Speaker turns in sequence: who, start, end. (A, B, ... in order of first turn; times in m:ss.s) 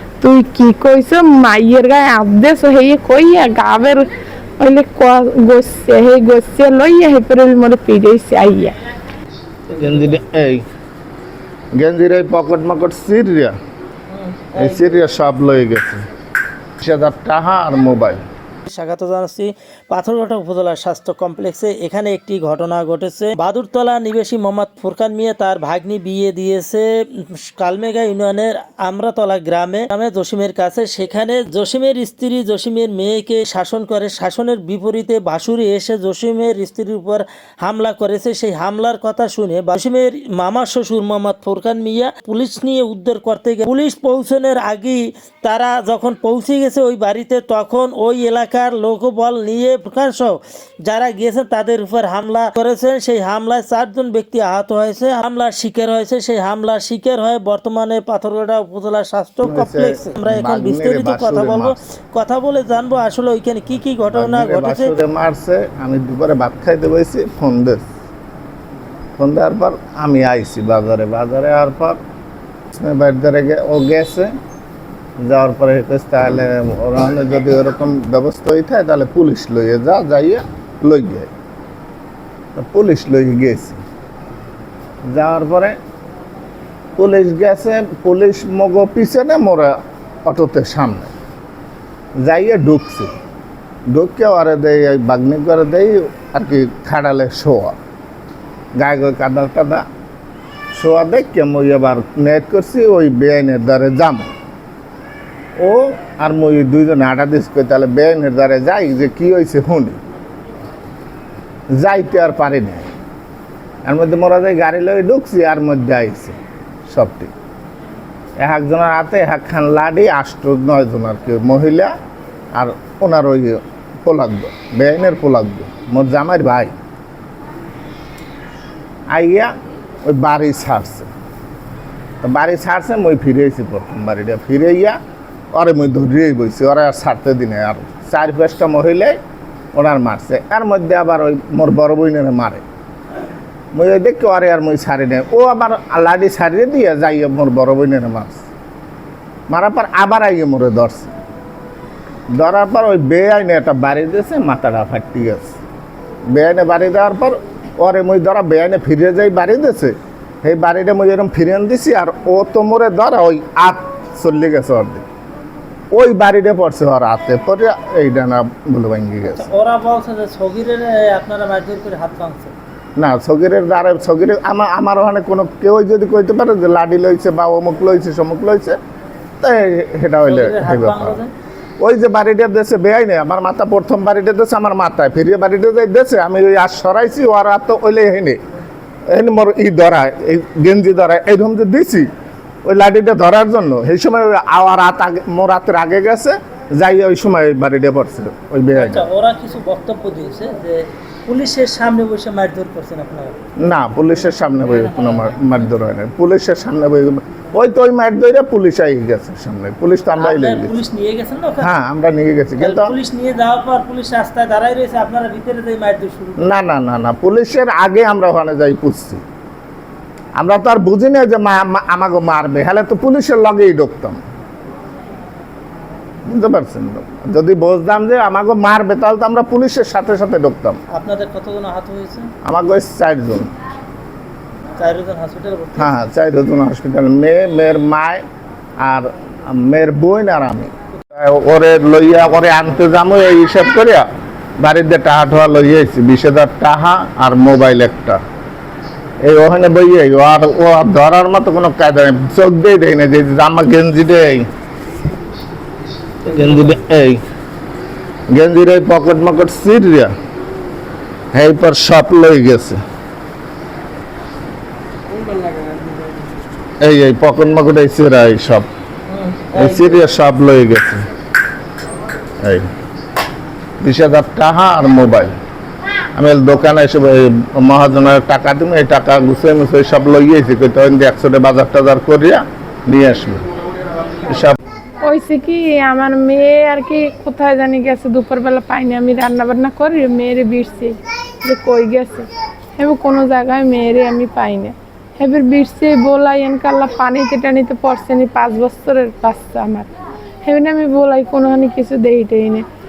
0:00.2-0:04.0 A
0:04.6-0:08.8 A
0:09.7-0:10.6 B
0:11.7-0:13.5 B
0:14.1-0:15.0 C
0:14.5-0:16.0 B
0:16.8-0:18.2 B
0:18.6-1:04.9 C
0:59.4-1:01.8 B
1:04.1-1:07.8 B
1:09.2-1:12.0 B
1:12.7-1:14.3 B
1:15.2-1:21.3 B
1:22.5-1:23.8 B
1:25.1-1:25.8 B
1:27.0-1:31.1 B
1:32.2-1:33.1 B
1:33.9-1:37.8 B
1:38.8-1:39.8 B
1:40.7-1:44.3 B
1:45.6-1:50.0 B
1:51.7-1:52.9 B
1:53.8-1:56.4 B
1:56.9-1:57.3 B
1:58.4-2:01.9 B
2:02.5-2:06.8 B
2:09.1-2:09.5 B
2:10.0-2:11.1 B
2:12.2-2:15.0 B
2:15.5-2:19.2 B
2:19.7-2:22.6 B
2:23.7-2:28.5 B
2:29.5-2:31.1 B
2:32.3-2:35.6 B
2:36.3-2:45.0 B
2:45.9-2:49.4 B
2:49.3-2:52.5 C
2:53.0-2:58.8 B
2:59.4-3:01.2 B
3:00.2-3:01.3 C
3:01.8-3:08.4 B
3:09.1-3:12.1 B
3:12.6-3:19.1 B
3:18.7-3:23.4 C
3:23.6-3:30.8 B
3:24.6-3:25.7 C
3:30.2-3:31.7 C
3:31.6-3:32.9 B
3:32.6-3:36.5 C
3:36.4-3:39.2 B
3:40.4-3:44.2 B
3:46.2-3:50.8 B
3:50.9-3:52.3 C
3:52.4-3:53.5 B
3:54.8-3:55.9 C
3:55.8-3:58.2 B
3:58.8-4:04.0 B
4:04.6-4:08.2 B
4:09.2-4:14.4 B
4:16.2-4:17.2 B
4:18.3-4:20.1 B
4:21.3-4:22.8 B
4:26.8-4:28.7 B
4:29.1-4:30.0 C
4:29.5-4:31.0 B
4:32.4-4:32.7 B
4:33.8-4:35.3 B
4:36.1-4:43.4 B
4:44.2-4:44.6 B
4:45.0-4:59.9 A
5:00.4-5:02.6 A